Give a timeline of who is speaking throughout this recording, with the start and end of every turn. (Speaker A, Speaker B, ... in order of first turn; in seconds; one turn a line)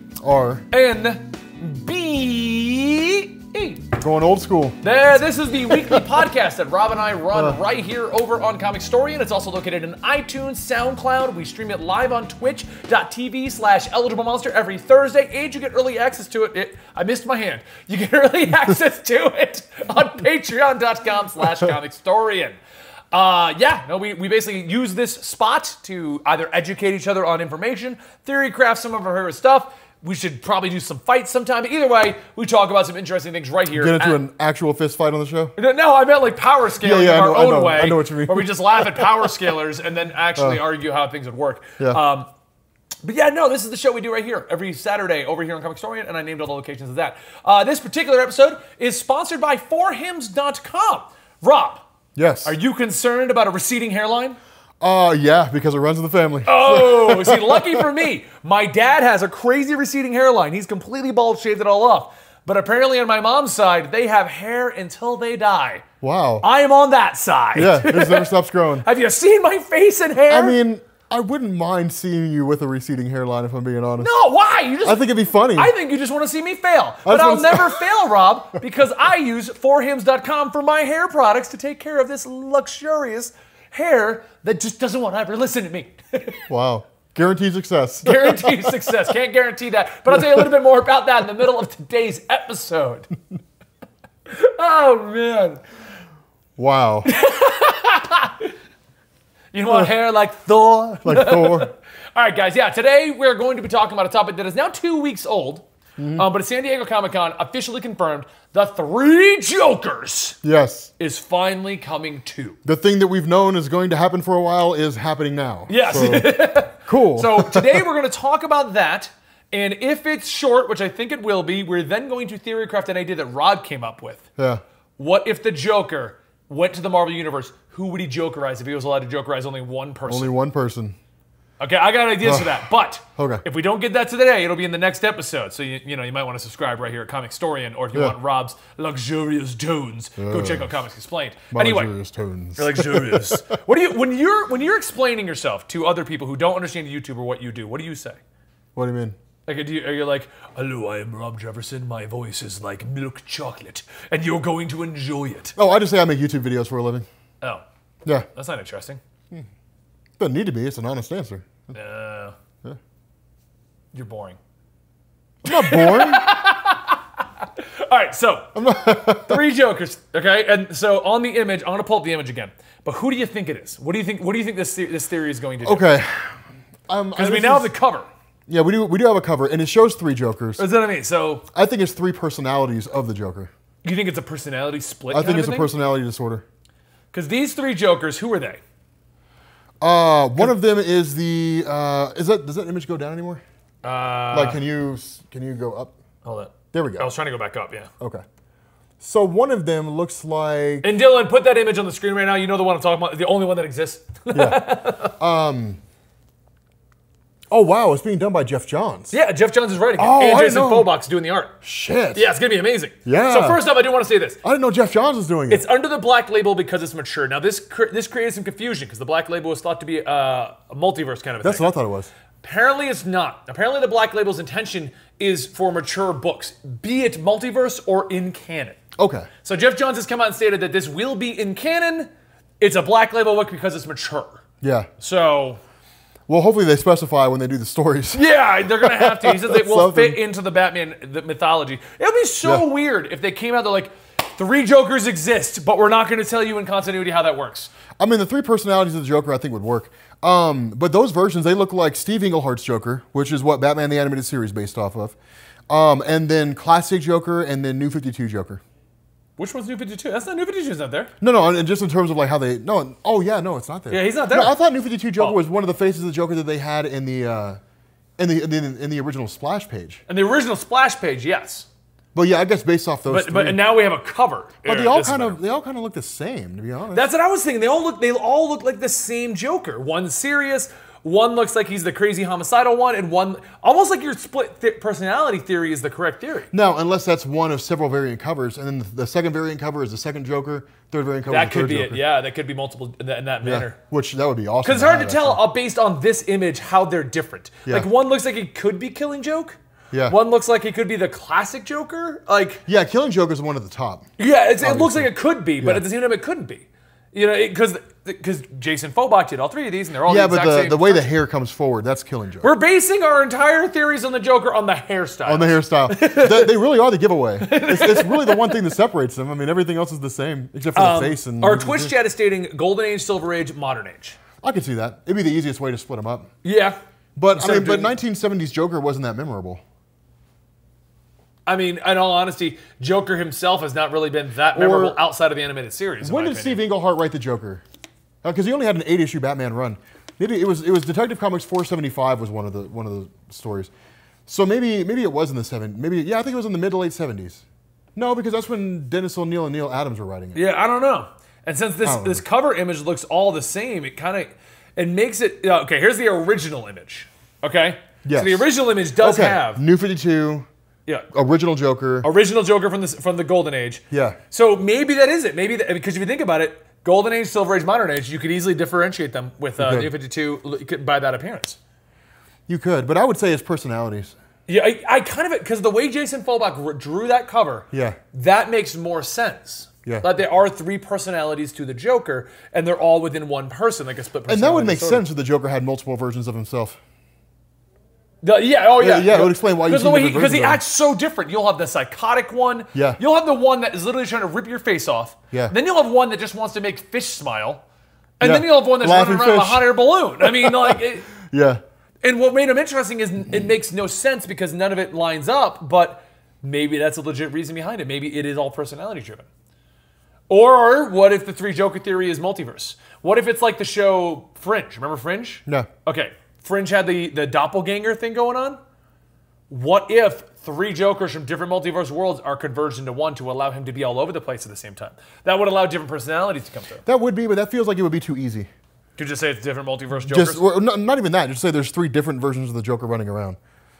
Speaker A: 0.2-0.7
Speaker B: 0.7-3.9
Speaker A: 4.0-4.8
Speaker B: 4.8-22.6
Speaker A: 5.7-6.0
Speaker A: 7.3-7.6
Speaker B: 23.1-34.2
Speaker A: 33.7-35.5
Speaker B: 35.6-42.3
Speaker A: 36.8-39.3
Speaker A: 40.4-40.6
Speaker B: 43.0-51.9
Speaker A: 52.1-52.5
Speaker B: 52.4-54.4
Speaker A: 54.8-57.9
Speaker B: 56.5-65.8
Speaker A: 66.0-66.4
Speaker B: 66.4-68.3
Speaker A: 67.5-68.8
Speaker B: 68.8-70.6
Speaker A: 70.3-74.1
Speaker B: 74.0-86.4
Speaker A: 74.8-75.7
Speaker A: 77.0-77.9
Speaker A: 86.5-88.9
Speaker B: 88.0-93.1
Speaker A: 90.1-90.5
Speaker B: 94.3-95.6
Speaker A: 96.6-97.1
Speaker B: 97.0-98.5
Speaker B: 99.5-110.4
Speaker A: 101.0-101.7
Speaker A: 106.0-106.3
Speaker A: 110.4-110.9
Speaker B: 111.0-112.6
Speaker A: 112.6-117.8
Speaker B: 115.7-124.2
Speaker B: 125.0-130.3
Speaker A: 130.1-130.9
Speaker B: 131.6-141.9
Speaker A: 132.2-132.6
Speaker A: 133.2-133.4
Speaker A: 140.2-140.8
Speaker A: 141.5-143.4
Speaker B: 142.6-148.2
Speaker A: 148.7-149.2
Speaker B: 149.5-155.6
Speaker A: 155.6-157.1
Speaker B: 158.3-159.0
Speaker A: 160.2-161.7
Speaker B: 161.7-162.3
Speaker B: 163.9-164.4
Speaker A: 165.4-166.3
Speaker B: 165.4-168.5
Speaker A: 168.5-169.4
Speaker B: 169.2-176.0
Speaker A: 175.6-176.4
Speaker A: 176.9-177.7
Speaker B: 177.2-178.1
Speaker A: 178.5-180.6
Speaker B: 180.6-181.4
Speaker A: 181.5-183.5
Speaker B: 183.8-185.7
Speaker A: 185.1-186.4
Speaker B: 187.1-188.6
Speaker A: 189.8-193.4
Speaker B: 193.8-194.6
Speaker A: 194.3-195.9
Speaker B: 196.2-197.9
Speaker A: 196.7-197.1
Speaker A: 199.0-200.9
Speaker B: 200.8-205.2
Speaker A: 204.3-205.8
Speaker A: 207.5-209.1
Speaker B: 209.1-211.5
Speaker A: 210.0-210.9
Speaker A: 211.6-212.3
Speaker B: 212.1-214.4
Speaker A: 213.1-213.6
Speaker A: 214.4-215.6
Speaker B: 215.5-221.7
Speaker A: 221.4-222.1
Speaker B: 222.4-228.8
Speaker A: 229.0-229.3
Speaker B: 229.4-232.1
Speaker B: 232.6-234.4
Speaker A: 234.6-234.9
Speaker B: 235.0-235.6
Speaker A: 236.3-240.2
Speaker B: 238.1-247.7
Speaker A: 248.0-255.1
Speaker A: 255.7-258.6
Speaker B: 259.4-261.1
Speaker A: 261.2-267.6
Speaker B: 263.9-264.6
Speaker A: 268.2-270.0
Speaker B: 270.1-271.6
Speaker A: 272.1-273.6
Speaker B: 273.1-275.4
Speaker A: 274.6-277.1
Speaker B: 276.9-286.5
Speaker A: 286.5-292.0
Speaker B: 291.3-293.8
Speaker A: 293.4-295.4
Speaker B: 294.6-302.6
Speaker A: 299.9-300.2
Speaker A: 302.6-304.1
Speaker B: 304.2-311.1
Speaker A: 304.6-305.8
Speaker A: 310.1-312.5
Speaker B: 312.4-316.5
Speaker A: 315.2-321.9
Speaker B: 317.4-318.7
Speaker B: 320.7-324.2
Speaker A: 324.4-326.3
Speaker B: 326.4-326.8
Speaker A: 327.1-329.6
Speaker B: 327.3-327.9
Speaker B: 331.4-336.6
Speaker A: 334.5-335.0
Speaker A: 336.0-337.6
Speaker A: 338.2-343.7
Speaker A: 344.3-347.4
Speaker A: 347.9-350.4
Speaker B: 350.3-359.6
Speaker A: 351.8-352.2
Speaker A: 358.0-360.5
Speaker A: 361.1-362.1
Speaker B: 362.0-371.6
Speaker A: 363.9-364.2
Speaker A: 369.6-369.9
Speaker A: 372.5-374.1
Speaker B: 374.5-385.0
Speaker A: 377.7-378.0
Speaker A: 384.2-386.8
Speaker B: 388.2-397.6
Speaker A: 388.8-390.6
Speaker A: 392.7-393.0
Speaker B: 398.2-401.1
Speaker A: 398.2-401.6
Speaker B: 402.0-409.2
Speaker B: 410.3-418.6
Speaker B: 419.5-426.8
Speaker A: 426.9-428.5
Speaker B: 429.0-430.4
Speaker A: 430.0-433.4